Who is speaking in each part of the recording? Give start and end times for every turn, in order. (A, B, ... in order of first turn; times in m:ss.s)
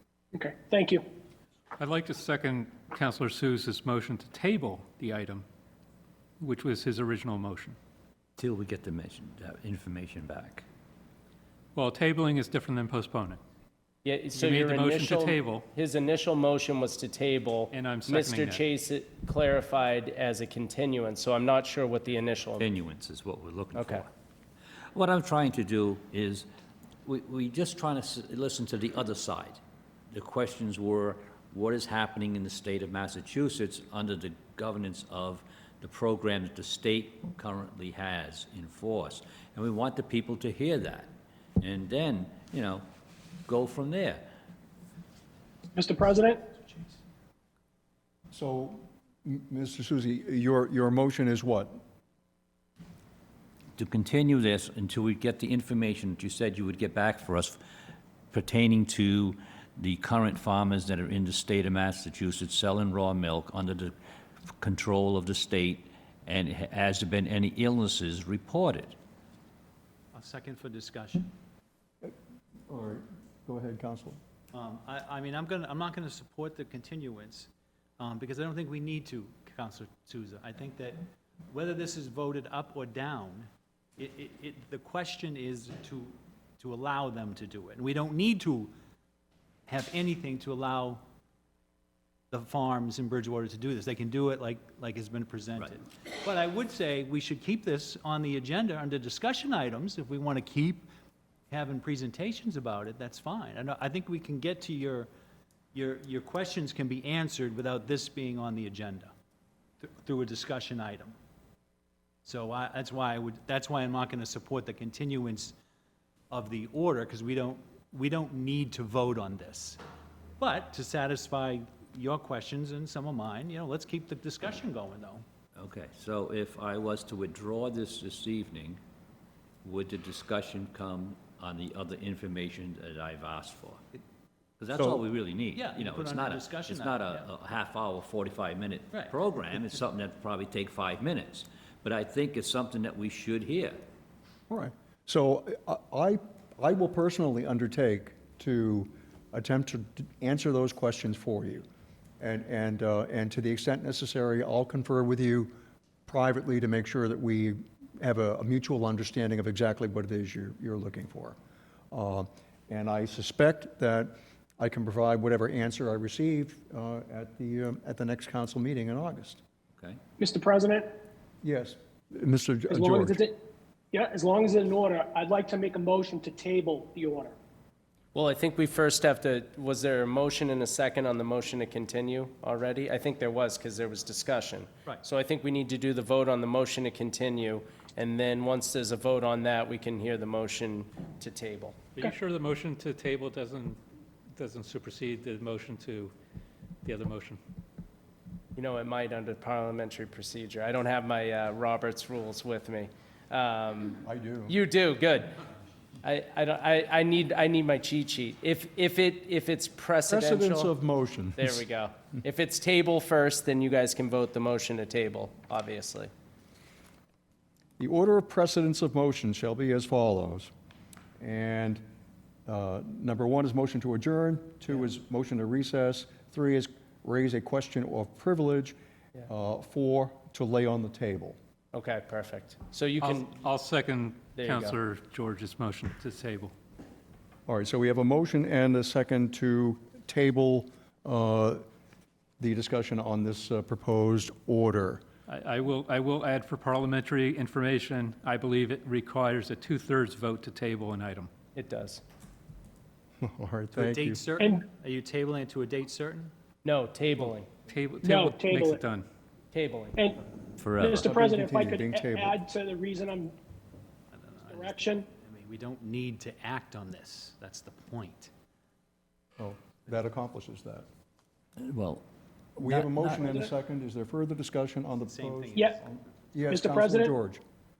0:00.3-0:01.0 A
0:01.8-0:05.4 B
0:06.4-0:07.8 B
0:08.4-0:10.6 C
0:11.8-0:13.4 B
0:14.0-0:22.7 D
0:14.3-0:15.6 B
0:17.7-0:18.6 B
0:22.6-0:24.1 C
0:23.8-0:24.0 D
0:24.9-0:26.5 C
0:27.0-0:29.6 C
0:30.1-0:42.8 C
0:43.5-0:44.3 C
0:45.7-0:46.4 A
0:48.3-0:51.8 E
0:53.8-0:57.6 C
0:58.3-1:03.9 C
1:04.6-1:09.0 C
1:10.1-1:11.3 F
1:12.7-1:14.2 E
1:14.5-1:28.7 F
1:29.7-1:31.0 F
1:32.3-1:40.9 F
1:41.5-1:45.1 F
1:45.7-1:49.1 F
1:49.8-1:51.1 F
1:52.2-1:55.5 F
1:56.3-1:59.8 F
2:00.4-2:05.2 F
2:05.5-2:08.8 C
2:09.6-2:13.8 C
2:14.6-2:23.8 C
2:15.5-2:17.3 F
2:18.9-2:19.5 F
2:24.5-2:31.7 E
2:32.2-2:35.5 E
2:36.1-2:41.4 E
2:41.9-2:49.4 E
2:50.2-2:50.9 A
2:51.4-2:53.2 E
2:52.7-2:53.4 A
2:53.9-2:57.4 A
2:58.1-3:11.9 D
3:12.0-3:13.8 B
3:14.4-3:16.1 B
3:16.8-3:17.4 B
3:18.5-3:25.3 D
3:24.0-3:24.6 E
3:26.0-3:30.7 D
3:30.1-3:31.6 E
3:31.4-3:36.1 D
3:37.8-3:40.5 E
3:41.2-3:41.8 E
3:42.4-3:48.8 E
3:49.2-3:51.4 E
3:51.7-3:53.4 D
3:53.0-3:56.5 B
3:54.4-3:54.8 D
3:57.5-4:01.6 E
4:02.4-4:05.0 E
4:05.3-4:11.3 B
4:11.6-4:12.0 D
4:13.2-4:14.2 E
4:13.8-4:16.3 F
4:16.6-4:17.5 D
4:17.7-4:19.1 B
4:18.0-4:18.8 A
4:19.5-4:20.0 D
4:20.6-4:21.1 C
4:20.8-4:23.3 A
4:21.0-4:22.4 E
4:24.1-4:28.3 F
4:24.5-4:25.1 A
4:29.4-4:30.9 E
4:31.6-4:32.0 C
4:32.6-4:37.4 E
4:32.6-4:33.3 C
4:33.1-4:33.5 A
4:35.1-4:35.9 F
4:36.5-4:37.1 A